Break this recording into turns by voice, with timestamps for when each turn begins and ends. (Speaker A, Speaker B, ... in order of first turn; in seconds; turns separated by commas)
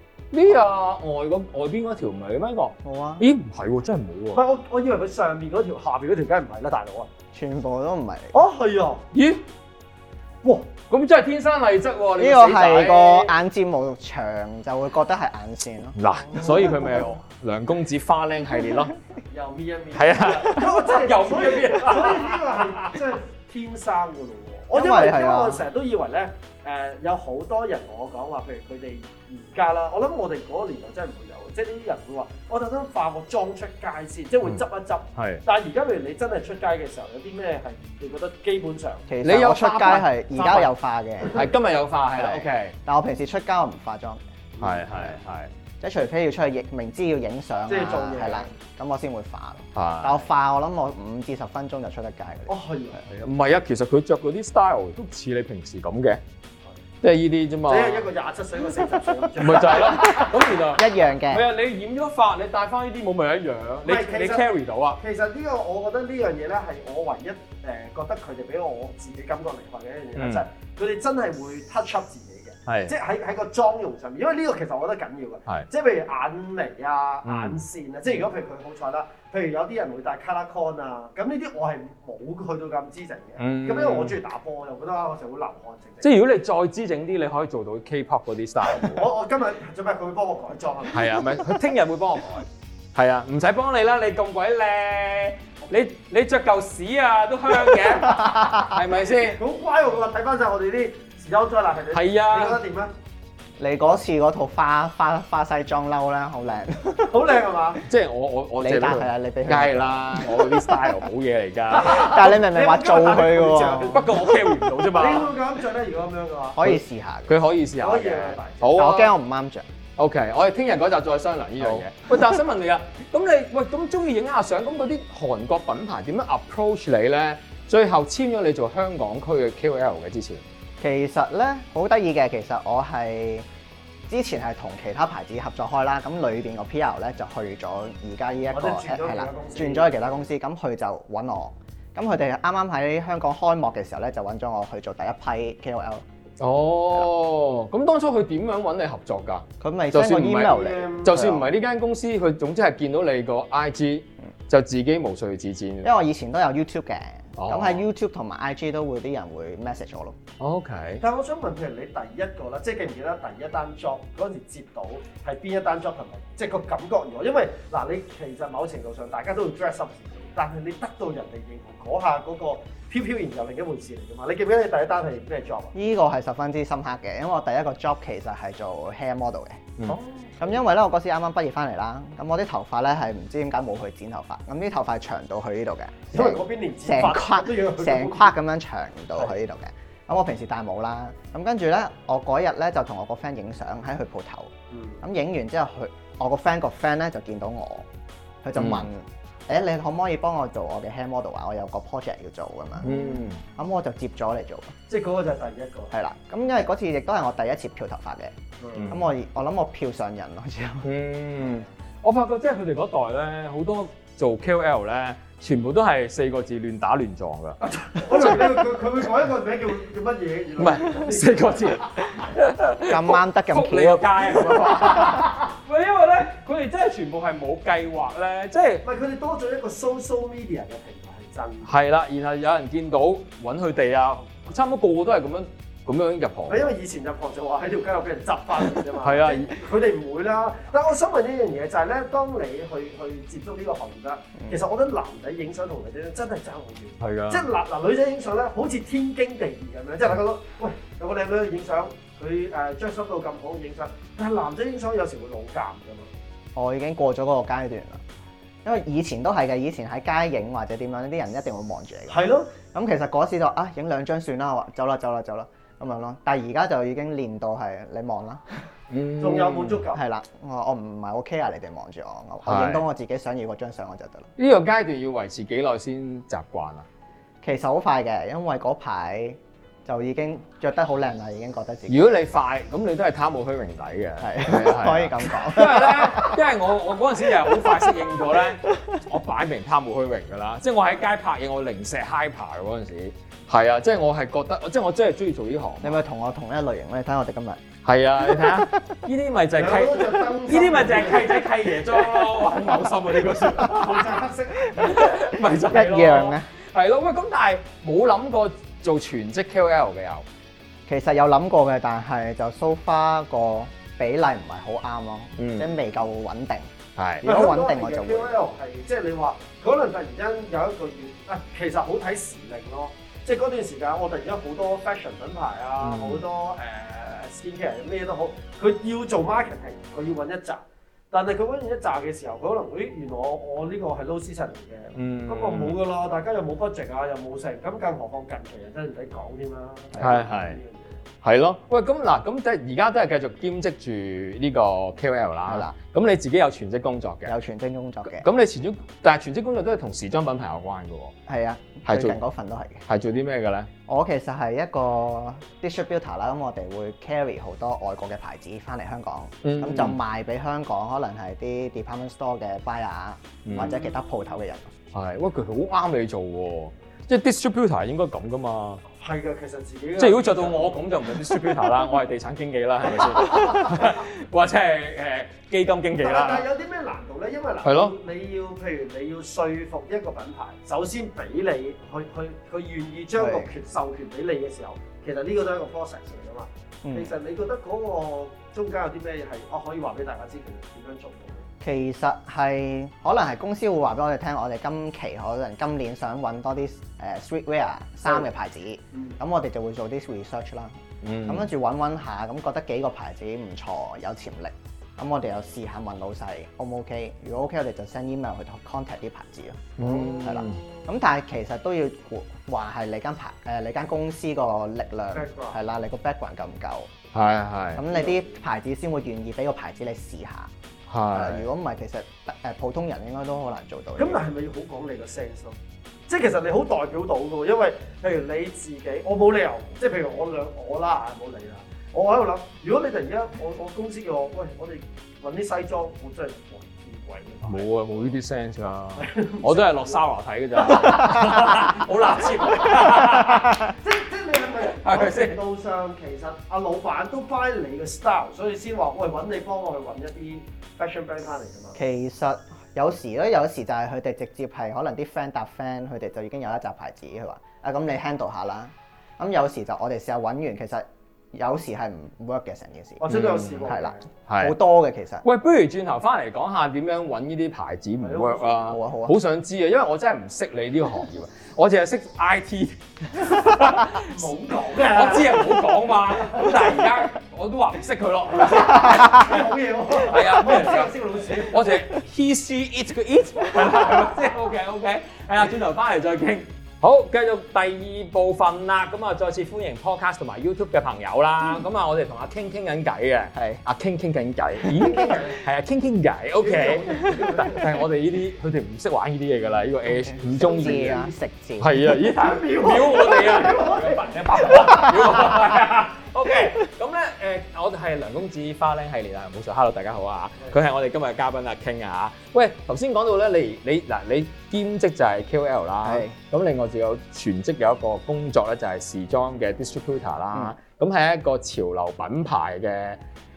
Speaker A: 0.3-4.4, Speaker B: 2.8-3.3, Speaker C: 4.3-7.1, Speaker B: 7.3-8.3, Speaker C: 8.3-9.0, Speaker A: 9.1-9.4, Speaker C: 10.4-10.7, Speaker A: 10.9-13.3, Speaker B: 12.2-16.0, Speaker A: 16.0-18.9, Speaker C: 16.3-16.7, Speaker B: 16.5-17.0, Speaker C: 19.3-39.1, Speaker A: 19.9-23.0, Speaker B: 24.7-25.6, Speaker A: 35.1-35.4, Speaker B: 39.1-41.5, Speaker A: 39.2-40.1, Speaker C: 40.4-40.6, Speaker A: 41.3-42.8, Speaker B: 42.1-44.2, Speaker C: 44.6-44.9, Speaker A: 44.6-45.5, Speaker B: 45.8-52.5, Speaker C: 47.7-48.5, Speaker A: 49.8-50.2, Speaker C: 52.5-53.0, Speaker A: 53.1-56.2, Speaker A: 57.0-58.1, Speaker C: 57.7-60.3, Speaker A: 59.4-65.0, Speaker B: 59.9-61.5, Speaker C: 63.9-86.1, Speaker A: 70.2-70.4, Speaker A: 72.7-72.9, Speaker A: 77.2-77.6, Speaker A: 83.4-84.2, Speaker A: 86.0-89.1, Speaker C: 88.7-91.4, Speaker A: 90.9-99.4, Speaker B: 98.1-98.7, Speaker C: 99.3-102.9, Speaker A: 101.9-102.6, Speaker B: 103.6-107.2, Speaker C: 107.1-107.8, Speaker A: 107.9-112.1, Speaker B: 108.6-111.0, Speaker C: 111.7-114.3, Speaker B: 111.8-114.0, Speaker A: 113.9-115.3, Speaker C: 114.9-116.6, Speaker B: 116.5-117.4, Speaker A: 116.6-119.1, Speaker C: 117.8-118.7, Speaker B: 118.7-119.7, Speaker A: 120.0-130.4, Speaker B: 121.6-121.8, Speaker B: 130.8-133.5, Speaker B: 134.1-146.0, Speaker C: 138.5-140.1, Speaker A: 146.4-155.9, Speaker B: 149.6-151.5, Speaker C: 150.5-151.3, Speaker B: 155.8-160.2, Speaker A: 157.4-157.8, Speaker A: 160.4-161.0, Speaker C: 161.0-175.7, Speaker B: 175.7-179.7, Speaker C: 179.9-180.6, Speaker B: 180.4-197.9, Speaker C: 186.1-188.3, Speaker C: 194.7-195.0, Speaker B: 198.4-202.9, Speaker A: 198.6-198.9, Speaker A: 202.8-203.4, Speaker B: 203.5-204.7, Speaker C: 204.9-205.9, Speaker B: 205.9-208.3, Speaker C: 208.6-208.9, Speaker A: 208.8-209.0, Speaker B: 208.9-210.9, Speaker A: 210.8-218.6, Speaker C: 217.6-221.9, Speaker A: 220.6-228.8, Speaker B: 222.9-225.3, Speaker C: 228.8-231.7, Speaker A: 231.7-236.7, Speaker C: 236.5-256.1, Speaker A: 239.0-239.6, Speaker A: 247.0-247.4, Speaker B: 256.6-258.0, Speaker B: 258.6-268.7, Speaker C: 262.1-262.5, Speaker A: 268.9-269.8, Speaker C: 269.2-270.0, Speaker B: 269.9-274.3, Speaker A: 272.4-272.9, Speaker A: 274.4-276.9, Speaker B: 277.4-282.2, Speaker A: 281.9-296.0, Speaker B: 284.2-286.4, Speaker B: 287.4-287.9, Speaker B: 288.7-288.9, Speaker B: 295.8-297.6, Speaker A: 297.9-304.2, Speaker B: 298.2-298.9, Speaker C: 299.6-301.5, Speaker C: 303.6-305.2, Speaker A: 304.7-310.2, Speaker B: 305.7-306.5, Speaker B: 310.9-316.7, Speaker A: 315.4-315.8, Speaker A: 317.0-317.3, Speaker B: 317.2-318.4, Speaker C: 317.2-341.0, Speaker A: 325.8-326.2, Speaker A: 334.9-335.8, Speaker A: 340.0-340.6, Speaker A: 341.2-347.4, Speaker B: 345.5-345.7, Speaker B: 347.3-348.3, Speaker A: 348.1-351.1, Speaker B: 351.3-352.8, Speaker A: 351.9-352.2, Speaker A: 352.9-353.7, Speaker B: 353.9-364.7, Speaker A: 359.4-360.0, Speaker A: 363.4-363.8, Speaker A: 364.9-368.8, Speaker C: 369.0-370.9, Speaker A: 370.0-376.4, Speaker C: 373.3-373.7, Speaker C: 376.0-391.4, Speaker A: 377.6-377.9, Speaker B: 383.2-383.5, Speaker B: 386.8-387.1, Speaker B: 391.6-416.9, Speaker C: 398.1-398.3, Speaker C: 398.9-399.2, Speaker A: 401.0-401.5, Speaker A: 409.8-410.6, Speaker C: 415.1-415.6, Speaker A: 417.1-417.8, Speaker B: 417.7-420.5, Speaker C: 417.9-418.4, Speaker A: 420.9-421.5, Speaker B: 421.1-424.2, Speaker C: 424.0-425.6, Speaker C: 426.1-438.1, Speaker A: 437.4-443.6, Speaker C: 438.9-443.0, Speaker C: 443.7-451.8, Speaker A: 444.7-445.4, Speaker B: 451.8-463.1, Speaker C: 463.0-464.1, Speaker A: 463.1-463.6, Speaker B: 463.6-465.2, Speaker A: 464.3-464.6, Speaker A: 465.2-479.4, Speaker C: 468.0-468.7, Speaker B: 468.7-469.1, Speaker C: 473.9-475.6, Speaker C: 476.2-476.6, Speaker C: 478.4-481.8, Speaker A: 479.9-501.0, Speaker B: 493.4-493.6, Speaker C: 494.7-495.4, Speaker C: 496.4-497.8, Speaker B: 499.9-501.8, Speaker C: 500.3-501.1, Speaker A: 501.6-523.0, Speaker C: 502.1-505.1, Speaker B: 515.8-516.1